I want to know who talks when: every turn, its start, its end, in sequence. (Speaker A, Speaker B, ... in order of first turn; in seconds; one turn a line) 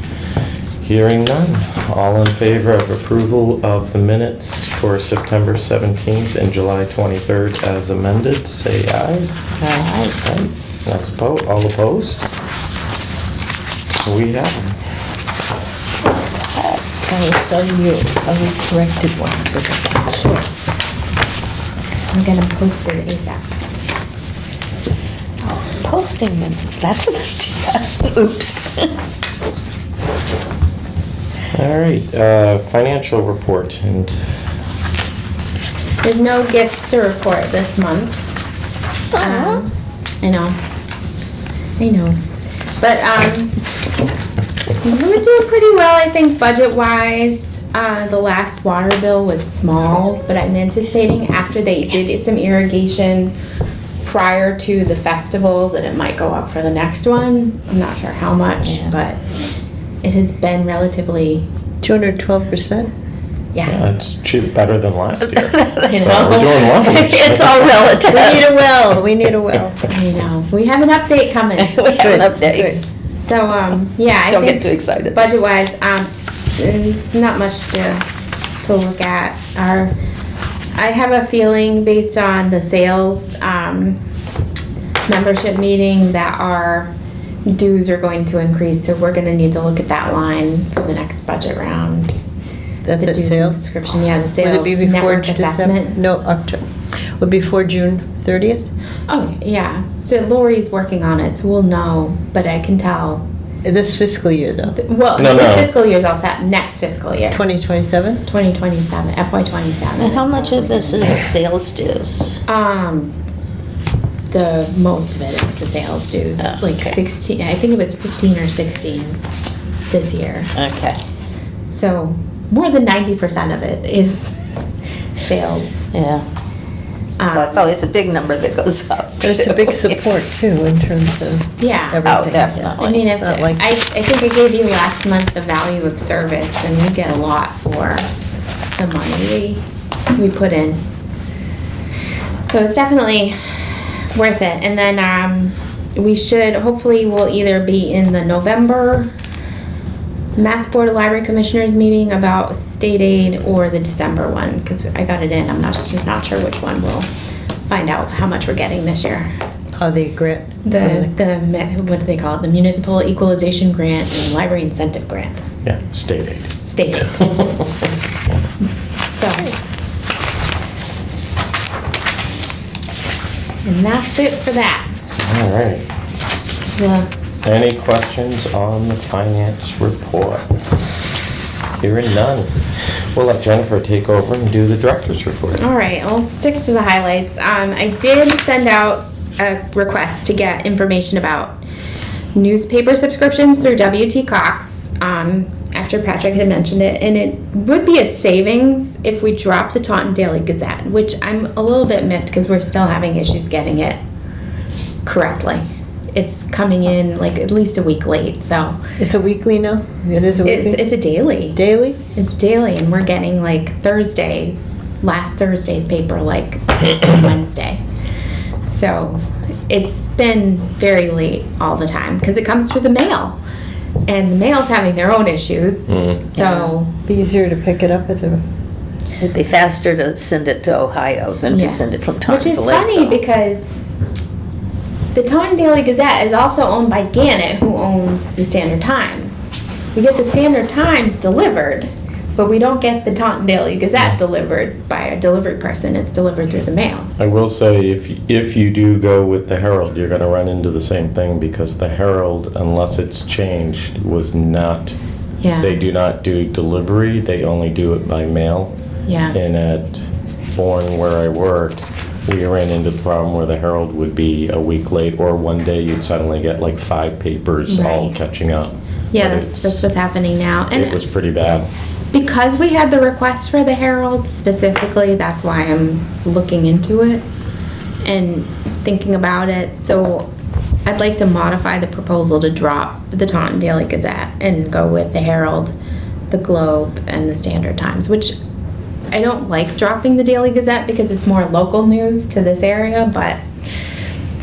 Speaker A: 0.8-9.3
Speaker B: 9.6-10.2
Speaker A: 10.2-12.3
Speaker A: 13.9-14.8
Speaker B: 16.5-20.4
Speaker C: 22.1-23.5
Speaker B: 25.4-28.9
Speaker A: 31.5-34.2
Speaker C: 36.0-38.3
Speaker B: 39.1-39.6
Speaker C: 39.1-40.5
Speaker C: 41.8-42.2
Speaker C: 42.8-43.5
Speaker C: 44.8-53.3
Speaker C: 54.0-59.2
Speaker B: 58.6-58.9
Speaker C: 60.0-61.5
Speaker D: 61.8-62.9
Speaker C: 63.5-63.8
Speaker A: 63.6-67.7
Speaker B: 65.3-68.5
Speaker D: 68.1-69.9
Speaker C: 69.9-72.3
Speaker B: 71.6-72.8
Speaker D: 72.0-72.8
Speaker C: 73.2-78.0
Speaker B: 74.3-75.3
Speaker C: 78.6-79.9
Speaker C: 80.7-84.0
Speaker C: 85.0-86.9
Speaker C: 87.5-92.2
Speaker D: 92.8-93.7
Speaker C: 93.0-96.0
Speaker D: 94.4-96.6
Speaker D: 97.2-98.6
Speaker C: 99.1-103.2
Speaker D: 103.6-104.8
Speaker C: 104.8-107.4
Speaker A: 105.2-105.7
Speaker D: 107.3-108.2
Speaker C: 108.2-111.3
Speaker B: 110.0-112.4
Speaker C: 112.5-113.1
Speaker C: 114.3-119.2
Speaker B: 116.4-117.0
Speaker C: 119.9-120.5
Speaker B: 120.5-121.0
Speaker C: 121.7-124.3
Speaker C: 125.2-125.8
Speaker B: 125.9-126.2
Speaker C: 127.2-127.7
Speaker B: 127.3-130.0
Speaker D: 129.2-133.7
Speaker C: 131.6-132.1
Speaker B: 132.0-133.2
Speaker C: 132.8-138.1
Speaker C: 138.8-139.6
Speaker C: 140.1-140.8
Speaker C: 142.4-149.1
Speaker C: 150.3-157.1
Speaker C: 157.7-159.3
Speaker D: 159.8-161.1
Speaker C: 160.6-165.4
Speaker A: 165.6-166.5
Speaker C: 166.7-167.5
Speaker C: 169.1-169.5
Speaker C: 173.6-174.9
Speaker A: 175.2-175.9
Speaker C: 176.7-177.1
Speaker A: 177.4-180.5
Speaker A: 181.7-182.5
Speaker A: 183.1-185.6
Speaker C: 185.6-191.6
Speaker C: 192.3-204.0
Speaker C: 205.0-208.8
Speaker D: 209.0-210.9
Speaker C: 210.4-211.6
Speaker D: 211.5-212.0
Speaker C: 212.1-217.8
Speaker C: 218.7-223.4
Speaker C: 224.1-227.0
Speaker A: 225.9-226.2
Speaker B: 226.3-226.7
Speaker D: 227.1-228.4
Speaker B: 229.2-233.2
Speaker C: 231.5-233.8
Speaker C: 235.1-247.1
Speaker A: 247.2-254.9
Speaker C: 255.4-255.8
Speaker A: 255.6-258.7
Speaker C: 259.1-259.4
Speaker A: 259.3-269.9
Speaker C: 267.7-268.2
Speaker C: 269.1-271.0
Speaker A: 270.7-271.7
Speaker C: 272.1-277.2
Speaker C: 278.0-280.3
Speaker C: 280.9-285.7
Speaker C: 286.3-288.4
Speaker C: 289.1-293.4